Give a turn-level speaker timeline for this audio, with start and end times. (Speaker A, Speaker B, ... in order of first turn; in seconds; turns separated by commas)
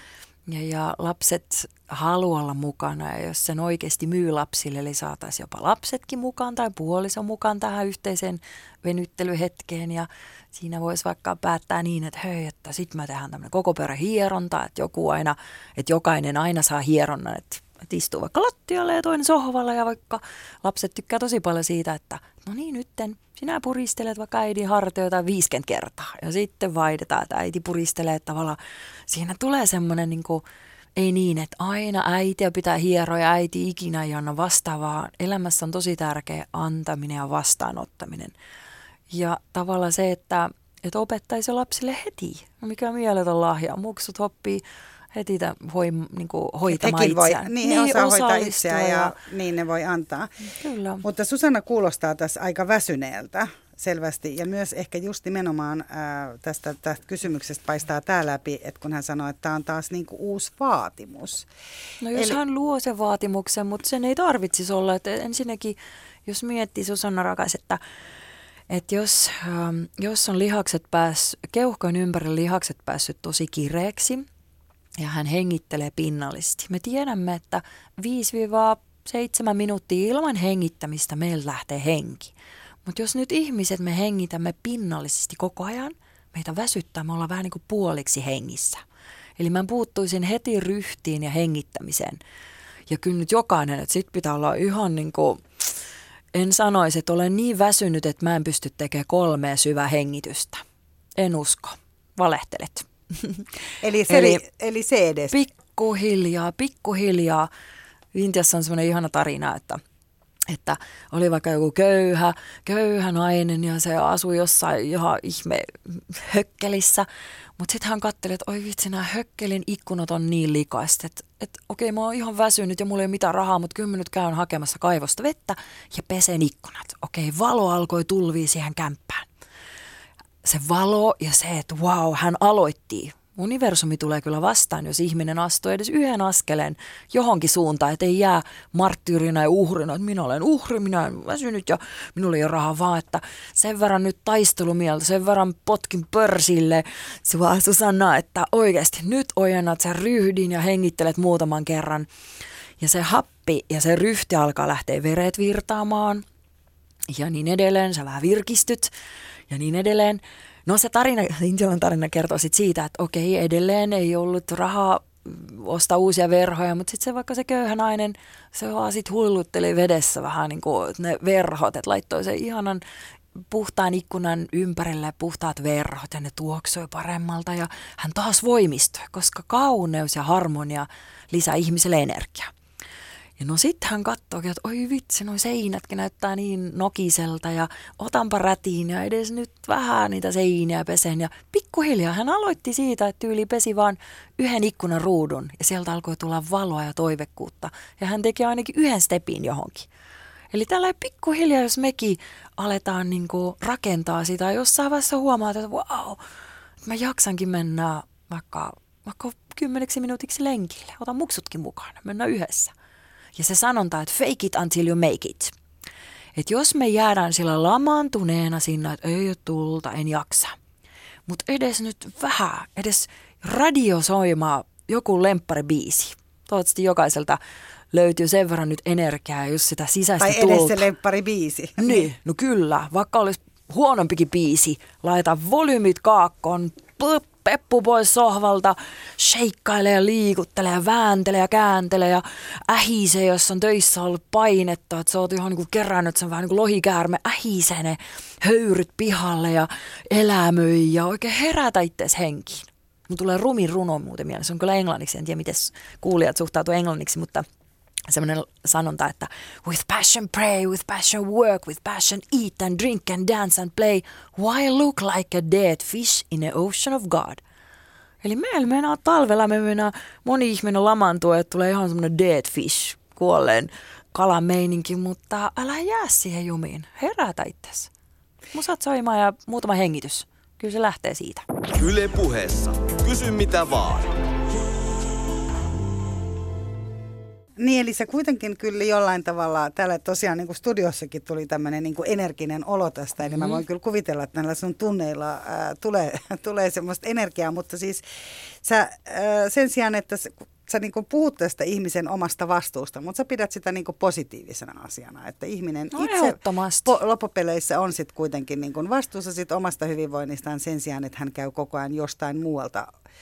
Speaker A: 0.5-30.4, Speaker A: 31.0-38.3, Speaker A: 39.1-44.6, Speaker A: 45.1-49.1, Speaker B: 46.7-50.3, Speaker A: 50.4-51.0, Speaker B: 51.0-61.5, Speaker A: 62.0-67.8, Speaker A: 68.7-74.3, Speaker A: 75.0-82.3, Speaker A: 82.8-88.8, Speaker A: 89.4-92.2, Speaker A: 92.9-95.7, Speaker A: 96.3-100.6, Speaker A: 101.2-103.5, Speaker B: 103.8-105.4, Speaker A: 104.0-104.4, Speaker A: 105.3-107.5, Speaker A: 108.1-109.8, Speaker A: 110.5-129.3, Speaker A: 130.4-152.1, Speaker A: 152.8-156.2, Speaker A: 157.1-158.9, Speaker A: 159.5-172.8, Speaker A: 173.4-182.5, Speaker A: 183.4-199.9, Speaker A: 200.5-206.2, Speaker A: 206.8-212.7, Speaker A: 213.3-215.5, Speaker A: 216.3-220.6, Speaker A: 221.3-227.4, Speaker A: 227.9-230.8, Speaker B: 230.2-232.1, Speaker A: 231.8-257.4, Speaker A: 258.1-267.4, Speaker A: 268.2-277.9, Speaker A: 278.5-281.4, Speaker C: 281.8-284.2, Speaker B: 287.6-298.0, Speaker B: 298.6-312.9, Speaker A: 305.9-306.9